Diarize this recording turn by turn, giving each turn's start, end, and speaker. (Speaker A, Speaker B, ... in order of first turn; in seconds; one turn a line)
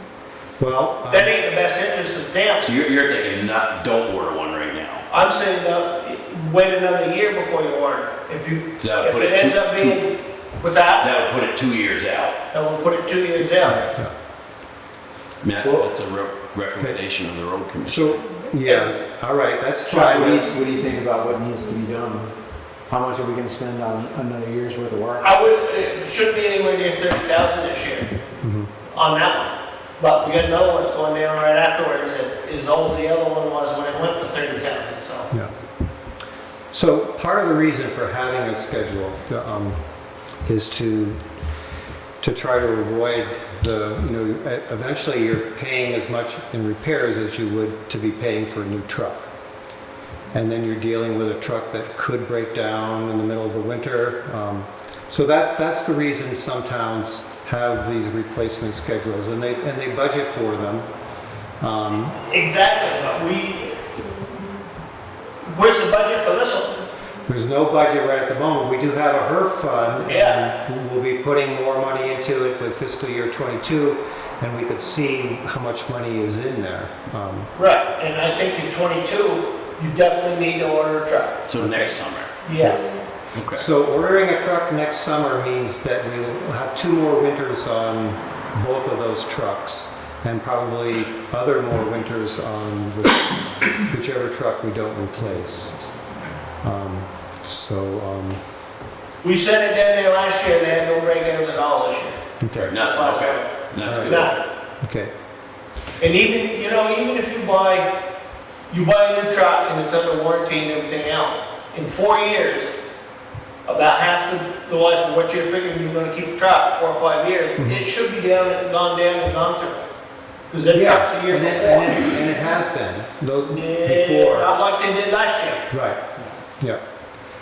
Speaker A: 0.6-1.3
Speaker B: 1.1-2.7
Speaker C: 2.6-5.1
Speaker B: 5.1-11.1
Speaker C: 8.8-10.0
Speaker C: 11.0-12.4
Speaker B: 12.5-13.8
Speaker A: 13.6-14.1
Speaker C: 15.4-18.2
Speaker A: 17.9-20.5
Speaker B: 18.6-18.9
Speaker D: 19.9-22.4
Speaker D: 22.9-25.3
Speaker B: 25.2-28.1
Speaker A: 28.4-28.7
Speaker B: 28.9-35.3
Speaker A: 36.7-39.8
Speaker A: 40.5-41.2
Speaker A: 42.2-49.3
Speaker A: 50.3-60.9
Speaker A: 61.6-62.2
Speaker B: 62.3-64.0
Speaker B: 65.5-66.8
Speaker A: 67.3-77.5
Speaker B: 70.1-70.5
Speaker B: 77.5-81.4
Speaker C: 81.5-82.3
Speaker A: 81.6-81.9
Speaker B: 82.4-82.9
Speaker A: 82.5-82.9
Speaker C: 83.3-83.7
Speaker A: 83.5-95.8
Speaker A: 96.6-98.4
Speaker B: 99.2-102.2
Speaker A: 102.4-102.7
Speaker C: 102.6-104.3
Speaker B: 102.7-104.4
Speaker A: 103.8-104.2
Speaker A: 104.8-105.1
Speaker B: 106.0-107.9
Speaker B: 108.7-112.7
Speaker B: 113.7-119.8
Speaker A: 117.6-117.9
Speaker B: 120.5-122.1
Speaker A: 120.7-124.5
Speaker B: 123.5-125.6
Speaker A: 125.7-126.0